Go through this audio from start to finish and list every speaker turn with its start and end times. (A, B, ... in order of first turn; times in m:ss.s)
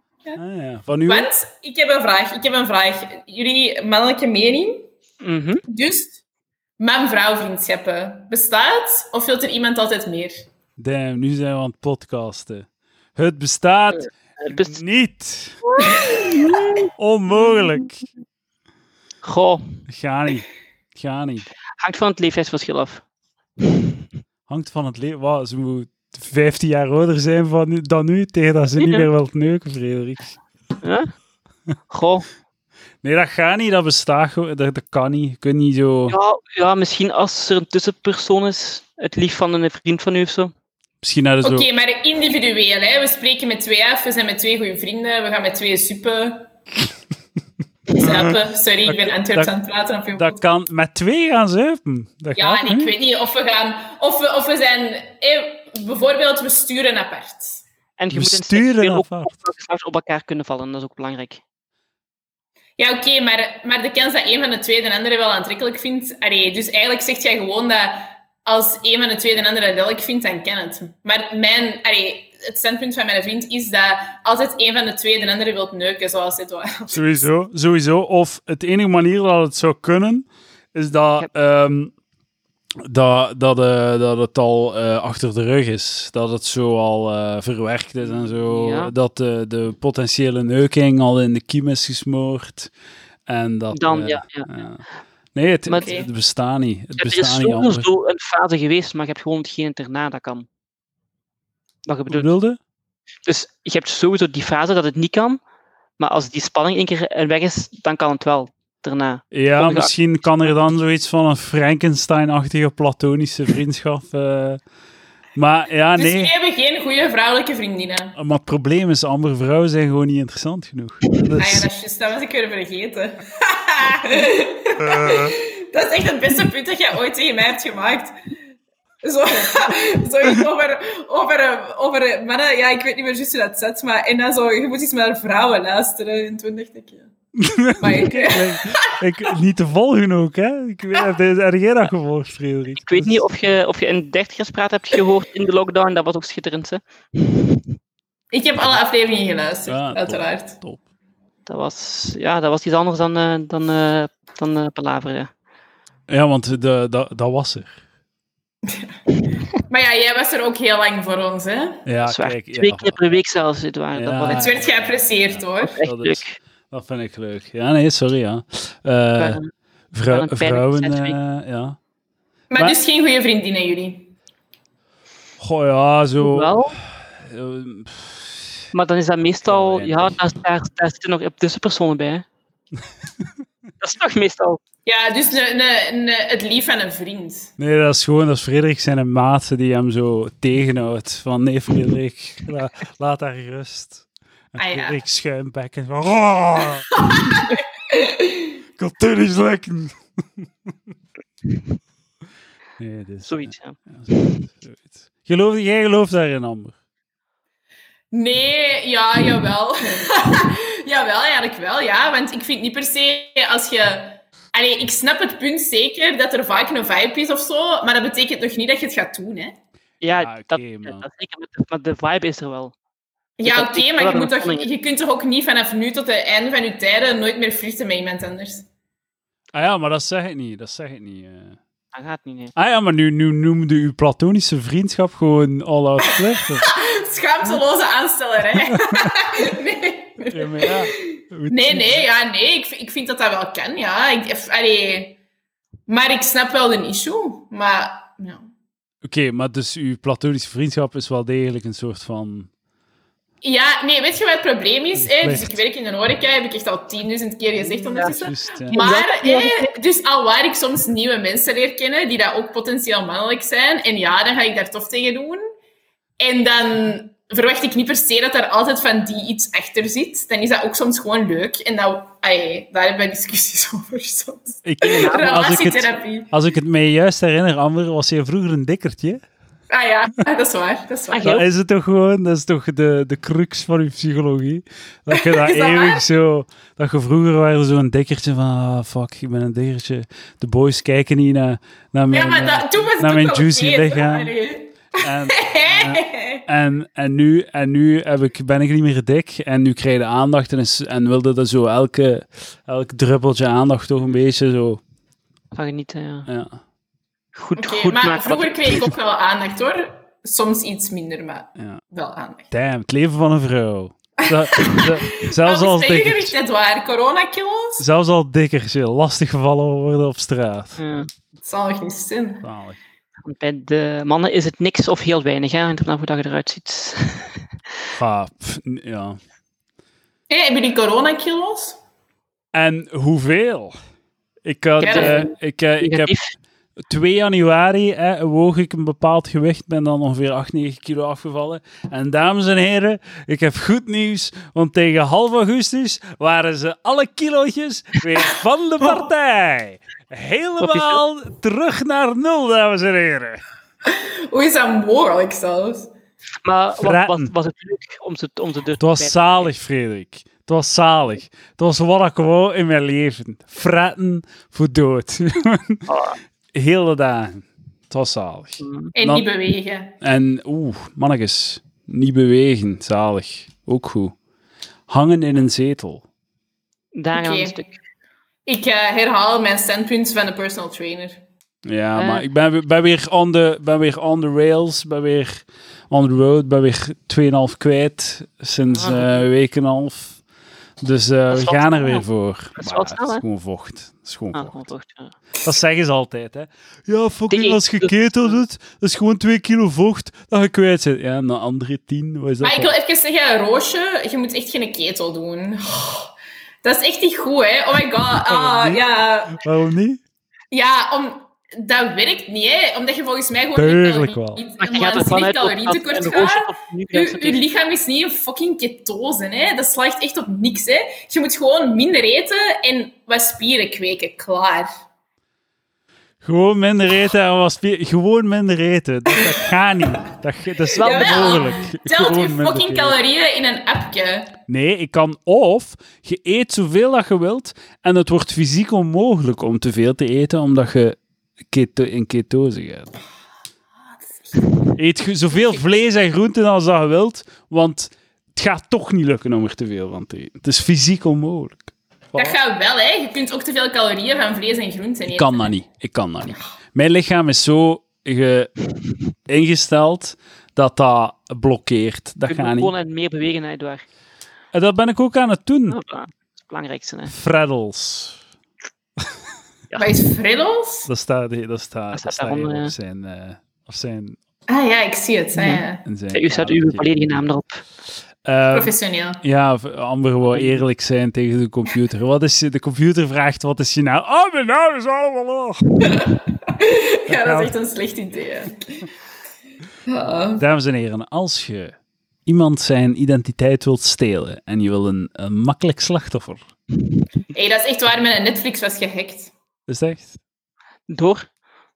0:00.4-0:01.3 A
0:01.1-0:04.9 B
0:05.2-0:05.6 C
0:05.7-0:06.2 B
0:06.8-0:10.4 B
0:10.8-0:15.7 A
0:14.4-0:14.8 C
0:16.2-0:16.8 C
0:16.9-0:18.1 A
0:19.2-0:19.8 C
0:19.9-0:21.4 A
0:21.8-0:23.0 C
0:23.6-0:23.9 C
0:24.5-0:30.4 A
0:28.8-0:29.1 C
0:30.8-0:31.1 C
0:31.9-0:32.2 C
0:33.0-0:36.2 A
0:36.1-0:40.5 C
0:41.0-0:41.7 A
0:41.4-0:46.5 B
0:47.9-0:50.4 B
0:48.0-0:48.3 A
0:48.9-0:49.5 A
0:50.2-0:52.9 A
0:52.4-0:57.6 B
0:58.0-1:01.4 C
0:58.1-0:59.3 A
1:02.8-1:17.3 B
1:16.9-1:21.9 A
1:22.8-1:32.7 A
1:28.0-1:28.9 C
1:33.3-1:34.8 A
1:33.7-1:34.5 C
1:35.3-1:37.9 A
1:35.7-1:35.9 C
1:35.7-1:36.1 B
1:37.0-1:40.5 C
1:41.9-1:42.3 C
1:42.1-1:42.6 A
1:43.2-1:45.4 C
1:46.0-1:49.9 C
1:49.3-1:54.6 A
1:55.3-1:56.3 A
1:56.0-1:58.2 B
1:58.2-2:01.7 A
2:01.4-2:08.1 B
2:04.9-2:05.3 A
2:09.0-2:17.1 B
2:17.4-2:23.2 A
2:17.8-2:18.9 B
2:22.8-2:27.6 C
2:28.3-2:30.6 B
2:29.7-2:30.8 A
2:31.5-2:35.3 C
2:36.1-2:37.7 A
2:38.6-2:39.0 B
2:39.5-2:41.8 B
2:41.9-2:43.0 A
2:42.0-2:44.6 C
2:43.9-2:49.4 A
2:44.3-2:45.8 B
2:45.7-2:46.4 C
2:49.2-2:49.5 C
2:49.9-2:51.8 A
2:50.1-2:51.2 C
2:52.5-2:54.1 B
2:55.4-2:56.7 A
2:56.2-2:56.8 C
2:57.2-2:58.4 A
2:58.7-3:02.2 C
2:59.5-3:00.2 A
3:03.8-3:04.6 C
3:04.9-3:07.5 B
3:07.6-3:17.4 A
3:14.6-3:15.0 B
3:17.0-3:18.5 B
3:18.8-3:20.0 A
3:22.8-3:26.7 A
3:23.2-3:24.4 C
3:28.1-3:39.6 B
3:40.0-3:42.7 C
3:40.2-3:41.0 A
3:43.4-3:48.6 B
3:43.4-3:44.7 C
3:49.5-3:51.6 A
3:51.9-3:52.5 C
3:52.6-3:56.7 A
3:56.0-4:05.2 B
3:58.7-3:59.1 A
4:00.3-4:02.1 A
4:05.9-4:08.4 B
4:09.0-4:12.5 A
4:13.4-4:25.4 B
4:15.0-4:15.6 A
4:17.9-4:18.8 A
4:18.7-4:19.7 C
4:26.2-4:36.3 B
4:34.6-4:39.2 A
4:34.8-4:35.2 C
4:39.7-4:41.4 B
4:41.1-4:41.4 C
4:41.2-4:54.3 A
4:45.1-4:46.0 B
4:52.1-4:56.4 B
4:55.0-5:04.8 A
5:05.5-5:06.3 C
5:06.3-5:06.6 A
5:07.3-5:08.9 C
5:07.6-5:12.5 B
5:12.5-5:16.3 A
5:14.2-5:17.8 B
5:17.8-5:20.8 A
5:20.8-5:21.1 C
5:21.4-5:22.4 B
5:22.4-5:22.8 A
5:23.2-5:27.4 C
5:28.0-5:29.2 A
5:30.3-5:31.8 B
5:32.5-5:33.7 A
5:34.4-5:36.1 A
5:34.8-5:35.2 B
5:34.8-5:36.3 C
5:36.9-5:53.4 A
5:50.6-5:51.0 C
5:53.8-5:55.9 B
5:56.4-5:59.5 C
5:56.8-5:57.3 A
5:58.8-6:05.9 A
6:05.9-6:06.2 C
6:06.5-6:09.2 A
6:08.6-6:08.9 C
6:09.0-6:09.9 B
6:10.0-6:14.1 A
6:14.9-6:16.0 A
6:17.0-6:17.7 C
6:17.1-6:17.6 B
6:18.4-6:21.2 B
6:21.6-6:30.2 A
6:22.0-6:22.3 C
6:28.7-6:29.2 C
6:30.8-6:34.7 A
6:31.3-6:32.0 C
6:32.6-6:33.2 C
6:34.3-6:35.2 C
6:35.4-6:42.7 A
6:37.3-6:38.3 C
6:42.4-6:49.4 B
6:48.2-6:50.0 A
6:50.5-7:04.7 B
6:53.6-6:54.4 A
6:54.6-6:57.4 C
7:06.2-7:13.0 A
7:10.7-7:11.6 C
7:10.8-7:14.4 B
7:14.5-7:21.0 A
7:21.5-7:22.9 A
7:24.0-7:24.5 B
7:24.7-7:32.4 A
7:32.1-7:35.5 B
7:35.1-7:38.6 A
7:39.3-7:42.7 A
7:42.3-7:43.8 C
7:44.5-7:45.8 A
7:45.7-7:47.1 C
7:47.1-7:48.2 A
7:49.8-7:50.9 B
7:50.9-7:54.2 A
7:51.9-7:52.7 C
7:54.5-7:55.8 B
7:55.8-7:56.8 A
7:56.1-7:57.6 C
7:58.2-8:06.1 A
7:58.5-7:59.2 B
8:00.3-8:00.6 C
8:05.8-8:08.9 B
8:07.1-8:07.5 A
8:09.9-8:10.4 B
8:10.4-8:11.7 A
8:12.2-8:16.4 A
8:17.3-8:19.3 B
8:19.7-8:20.1 A
8:20.9-8:21.3 C